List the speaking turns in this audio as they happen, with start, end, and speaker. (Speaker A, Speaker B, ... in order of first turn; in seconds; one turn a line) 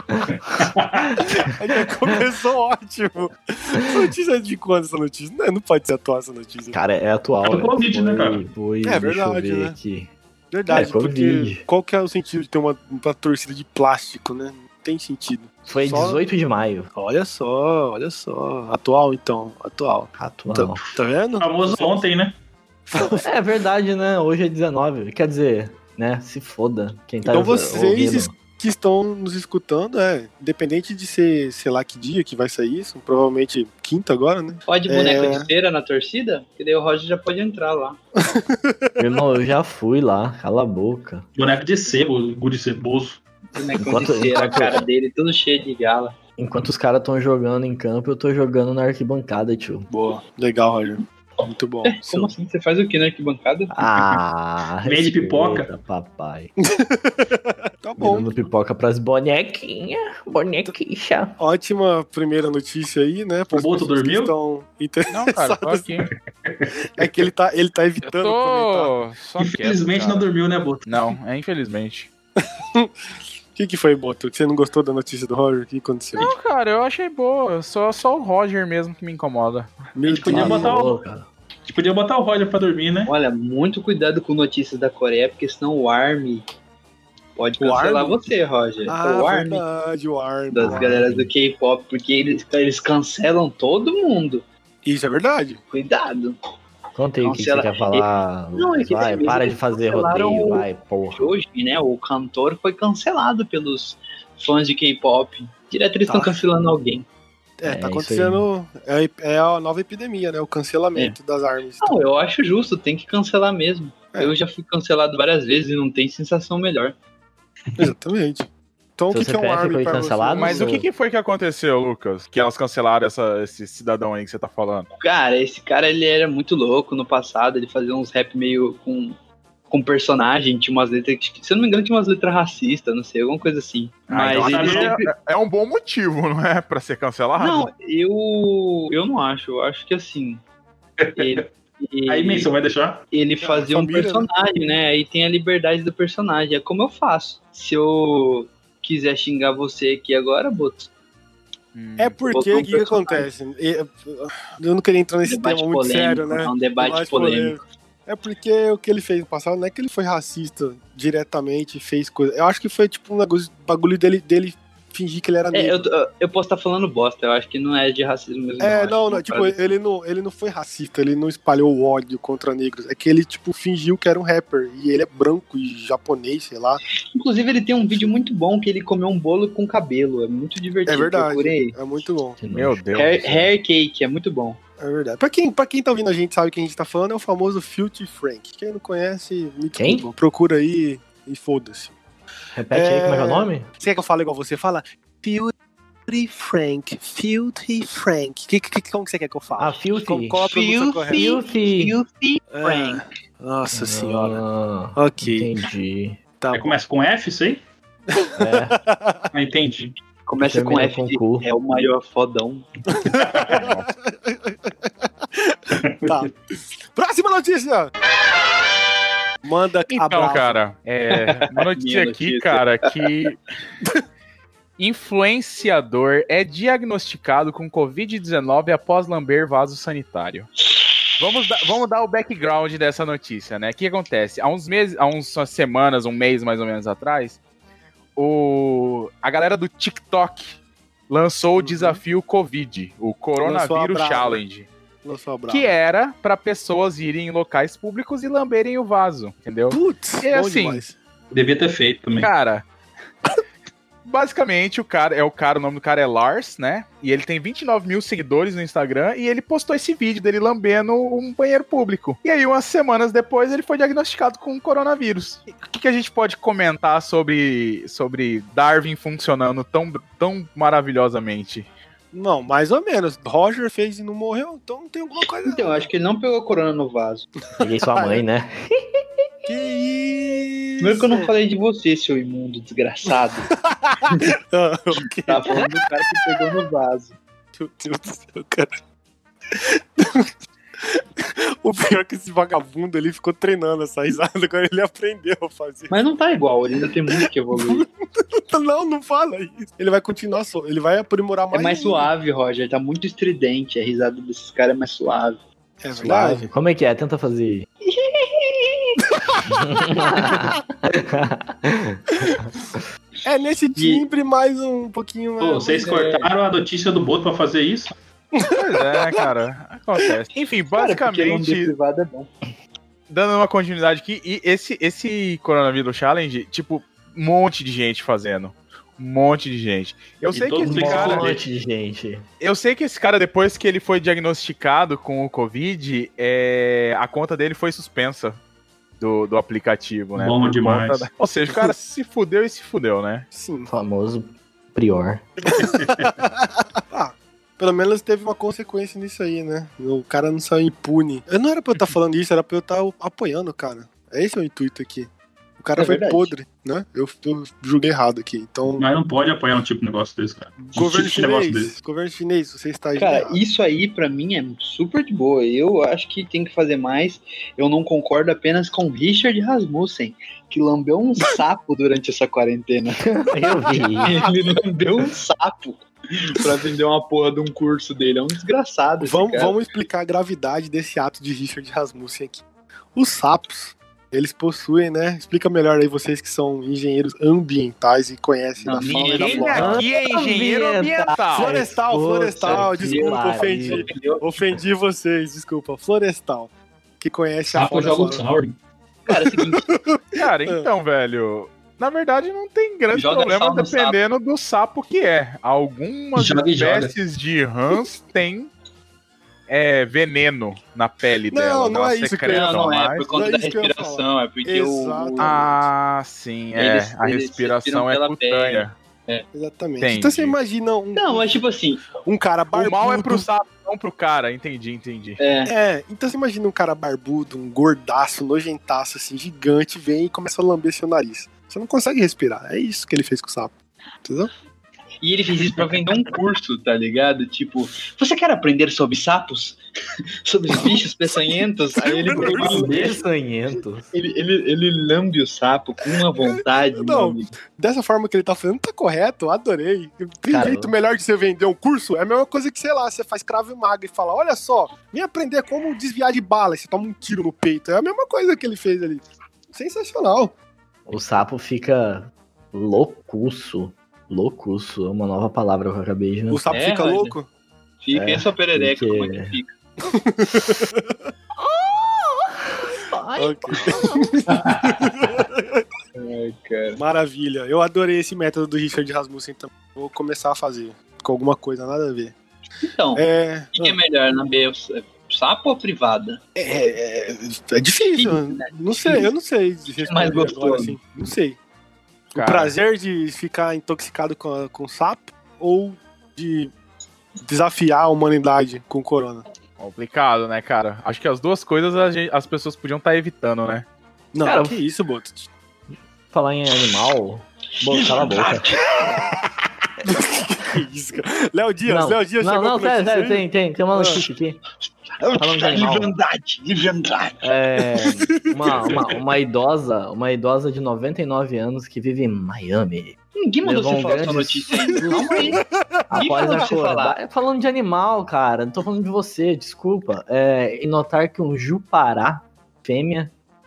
Speaker A: 0.5-1.2
Speaker B: 1.0-1.3
Speaker C: 1.4-6.8
Speaker B: 6.7-10.1
Speaker A: 7.4-8.4
Speaker C: 8.8-9.8
Speaker C: 10.5-16.2
Speaker B: 10.7-11.7
Speaker B: 15.7-16.9
Speaker C: 16.9-22.1
Speaker B: 20.2-20.8
Speaker A: 21.4-22.4
Speaker C: 22.9-23.4
Speaker B: 23.0-28.3
Speaker C: 27.2-35.5
Speaker D: 34.7-38.0
Speaker C: 38.3-39.0
Speaker B: 39.0-41.3
Speaker A: 41.4-43.2
Speaker D: 43.5-46.1
Speaker B: 43.8-44.9
Speaker B: 46.4-49.9
Speaker C: 50.3-52.3
Speaker D: 51.9-53.7
Speaker B: 53.7-56.5
Speaker A: 53.9-54.2
Speaker A: 54.8-55.7
Speaker C: 56.7-58.3
Speaker B: 58.0-61.4
Speaker C: 61.4-65.9
Speaker A: 63.5-64.3
Speaker E: 65.1-66.1
Speaker A: 66.1-66.8
Speaker C: 67.0-69.0
Speaker E: 68.0-70.3
Speaker A: 69.4-71.1
Speaker E: 70.9-72.1
Speaker C: 73.5-76.3
Speaker E: 76.2-79.8
Speaker A: 80.0-81.0
Speaker C: 80.0-80.8
Speaker B: 80.3-81.3
Speaker A: 81.7-83.1
Speaker D: 83.1-86.4
Speaker D: 87.4-89.6
Speaker C: 87.6-88.2
Speaker C: 88.9-91.0
Speaker D: 90.5-94.4
Speaker B: 90.6-91.3
Speaker C: 94.8-95.6
Speaker D: 95.7-96.4
Speaker B: 97.0-101.3
Speaker D: 97.2-107.1
Speaker C: 106.1-106.4
Speaker C: 107.6-112.0
Speaker B: 107.7-108.5
Speaker D: 111.8-117.0
Speaker C: 117.8-120.8
Speaker B: 119.1-120.9
Speaker E: 120.4-124.9
Speaker D: 125.0-129.2
Speaker D: 129.7-135.1
Speaker E: 134.1-137.7
Speaker A: 134.3-134.9
Speaker D: 137.4-140.4
Speaker A: 141.0-141.5
Speaker D: 141.2-142.5
Speaker A: 142.1-143.0
Speaker D: 143.1-150.9
Speaker C: 143.4-144.3
Speaker E: 151.8-152.2
Speaker C: 152.0-165.9
Speaker D: 152.3-153.3
Speaker D: 155.2-157.6
Speaker D: 165.5-169.7
Speaker C: 168.6-176.8
Speaker D: 177.1-181.8
Speaker C: 180.9-182.4
Speaker B: 182.4-183.1
Speaker E: 182.5-183.5
Speaker D: 182.9-184.6
Speaker C: 184.8-192.0
Speaker B: 189.8-190.1
Speaker B: 192.6-193.7
Speaker C: 192.7-195.5
Speaker C: 196.1-201.3
Speaker B: 199.6-200.4
Speaker D: 200.4-203.0
Speaker B: 201.1-201.9
Speaker C: 202.5-204.4
Speaker B: 203.7-206.2
Speaker C: 205.0-205.5
Speaker C: 206.4-206.8
Speaker A: 206.5-207.6
Speaker C: 208.2-209.3
Speaker B: 208.4-208.8
Speaker A: 209.3-209.9
Speaker D: 210.3-212.7
Speaker B: 210.4-211.5
Speaker C: 213.0-216.3
Speaker A: 213.1-213.6
Speaker E: 213.5-213.9
Speaker A: 215.8-216.3
Speaker C: 216.9-217.9
Speaker C: 219.4-220.6
Speaker E: 219.9-223.4
Speaker D: 221.6-222.8
Speaker E: 224.8-230.5
Speaker E: 231.2-237.4
Speaker E: 238.2-244.7
Speaker C: 241.6-242.0
Speaker C: 243.4-244.4
Speaker C: 245.0-245.7
Speaker E: 245.5-250.8
Speaker C: 249.7-251.0
Speaker A: 251.3-252.3
Speaker E: 252.2-252.7
Speaker E: 254.1-271.7
Speaker C: 272.1-275.9
Speaker D: 275.4-277.3
Speaker C: 277.6-278.2
Speaker B: 277.6-278.5
Speaker C: 279.5-281.3
Speaker D: 280.8-283.5
Speaker C: 283.6-286.4
Speaker D: 285.3-287.2
Speaker C: 287.6-288.8
Speaker C: 289.5-295.9
Speaker D: 295.9-297.8
Speaker C: 297.2-302.1
Speaker D: 301.5-305.4
Speaker C: 305.8-306.5
Speaker B: 305.9-307.7
Speaker D: 307.8-309.0
Speaker B: 309.5-312.4
Speaker C: 310.0-310.4
Speaker C: 313.2-315.9
Speaker D: 313.8-314.0
Speaker A: 315.4-317.9
Speaker D: 315.8-316.3
Speaker C: 318.4-319.3
Speaker E: 318.5-321.7
Speaker D: 320.7-322.3
Speaker E: 323.1-331.3
Speaker A: 330.3-331.4
Speaker B: 330.6-332.3
Speaker E: 332.4-338.4
Speaker E: 339.0-343.3
Speaker A: 340.2-341.1
Speaker C: 341.5-341.7
Speaker C: 343.3-343.7
Speaker B: 343.7-345.2
Speaker C: 345.6-346.3
Speaker A: 345.6-346.1
Speaker C: 346.9-358.9
Speaker D: 355.8-356.3
Speaker A: 358.8-361.7
Speaker C: 360.7-363.4
Speaker D: 362.9-373.1
Speaker B: 373.0-374.1
Speaker D: 374.0-379.7
Speaker C: 379.0-382.4
Speaker C: 382.9-389.8
Speaker D: 388.6-389.8
Speaker E: 388.8-391.6
Speaker B: 389.6-393.9
Speaker C: 391.3-398.2
Speaker D: 392.4-394.3
Speaker A: 397.5-398.6
Speaker D: 399.1-399.8
Speaker C: 399.1-400.7
Speaker E: 400.1-408.5
Speaker D: 402.9-404.0
Speaker A: 406.1-407.0
Speaker E: 409.5-413.0
Speaker C: 411.3-412.6
Speaker D: 412.3-415.4
Speaker C: 413.1-415.7
Speaker E: 415.2-418.7
Speaker D: 416.6-419.2
Speaker C: 419.3-421.4
Speaker E: 419.8-420.4
Speaker D: 420.9-421.9
Speaker C: 422.0-423.3
Speaker E: 422.5-425.2
Speaker D: 425.2-425.5
Speaker C: 425.5-434.3
Speaker D: 435.0-439.6
Speaker D: 440.2-442.8
Speaker C: 440.6-442.7
Speaker A: 442.2-443.0
Speaker B: 442.4-443.9
Speaker D: 443.9-447.3
Speaker C: 446.2-460.3
Speaker B: 450.3-450.7
Speaker B: 460.9-466.5
Speaker C: 466.3-467.3
Speaker D: 466.5-467.2
Speaker D: 467.8-469.5
Speaker B: 467.9-469.4
Speaker C: 469.9-471.0
Speaker B: 471.4-474.1
Speaker C: 473.2-475.6
Speaker D: 476.0-476.8
Speaker C: 476.8-482.1
Speaker D: 482.6-486.2
Speaker C: 482.9-483.8
Speaker C: 486.4-491.4
Speaker D: 487.9-489.1
Speaker D: 489.8-490.8
Speaker C: 492.1-496.5
Speaker E: 492.1-492.5
Speaker C: 497.2-499.2
Speaker E: 499.6-503.7
Speaker C: 504.1-505.3
Speaker B: 504.2-504.6
Speaker B: 506.1-508.5
Speaker D: 507.6-509.1
Speaker C: 509.9-514.0
Speaker B: 511.7-514.4
Speaker D: 515.0-517.3
Speaker B: 515.2-515.9
Speaker B: 517.2-533.1
Speaker C: 518.3-518.6
Speaker D: 523.2-525.4
Speaker C: 525.1-526.2
Speaker D: 525.9-527.0